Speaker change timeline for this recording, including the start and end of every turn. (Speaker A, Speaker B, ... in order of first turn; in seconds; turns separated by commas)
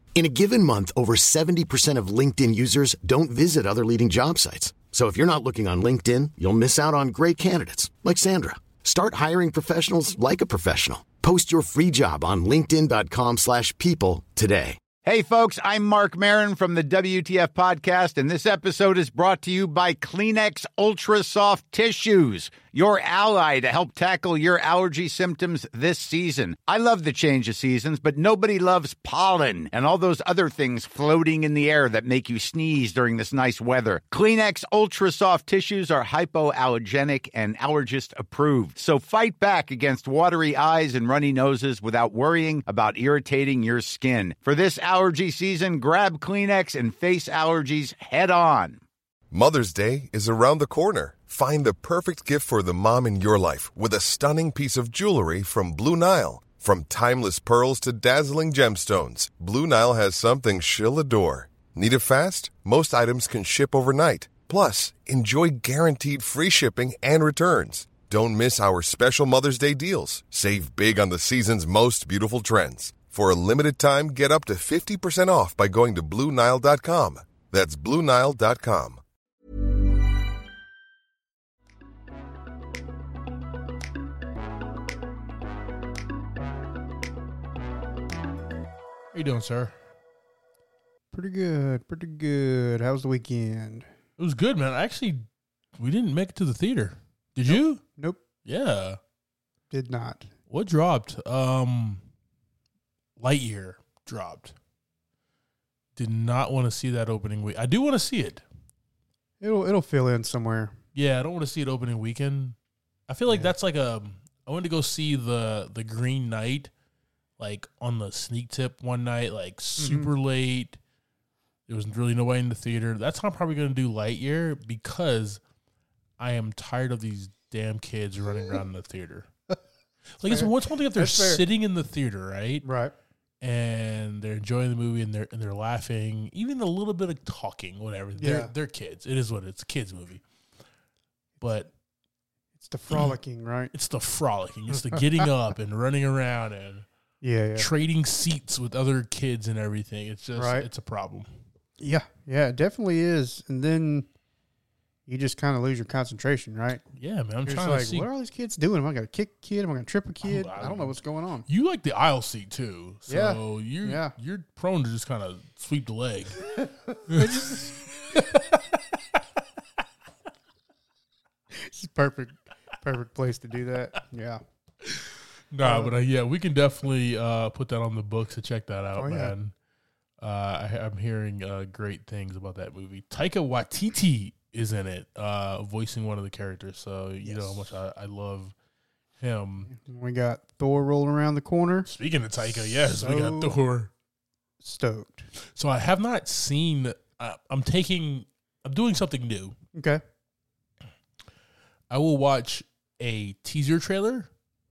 Speaker A: 0.1-14.8, Speaker B: 15.0-48.8, Speaker C: 49.3-79.0, Speaker D: 89.1-89.7, Speaker E: 91.1-93.9, Speaker D: 94.2-95.2, Speaker D: 95.8-97.8, Speaker E: 97.5-98.2, Speaker D: 98.4-99.0, Speaker E: 99.7-100.3, Speaker D: 100.5-102.0, Speaker D: 103.2-104.5, Speaker D: 106.0-108.4, Speaker E: 109.4-110.8, Speaker D: 110.9-112.5, Speaker D: 113.1-116.7, Speaker D: 117.4-120.8, Speaker E: 119.8-120.1, Speaker D: 121.7-125.4, Speaker D: 126.2-129.3, Speaker D: 130.2-132.6, Speaker E: 130.2-131.4, Speaker E: 132.6-132.9, Speaker D: 133.4-140.2, Speaker E: 138.2-138.5, Speaker D: 141.4-141.7, Speaker E: 142.6-143.7, Speaker D: 143.7-146.8, Speaker E: 147.2-147.7, Speaker D: 147.6-151.3, Speaker E: 150.3-150.7, Speaker E: 151.8-154.1, Speaker E: 155.1-156.8, Speaker D: 156.9-158.1, Speaker E: 157.4-161.4, Speaker D: 160.2-166.4, Speaker E: 163.1-164.1, Speaker E: 166.5-168.3, Speaker D: 167.1-168.6, Speaker E: 171.5-174.4, Speaker D: 174.8-179.5, Speaker E: 175.6-175.9, Speaker E: 179.0-179.3, Speaker D: 180.2-188.5, Speaker E: 187.2-187.7, Speaker D: 189.2-189.7, Speaker E: 189.6-191.9, Speaker D: 191.8-193.9, Speaker E: 192.7-193.5, Speaker E: 194.6-195.3, Speaker D: 195.5-199.6, Speaker E: 199.7-200.0, Speaker D: 201.9-204.3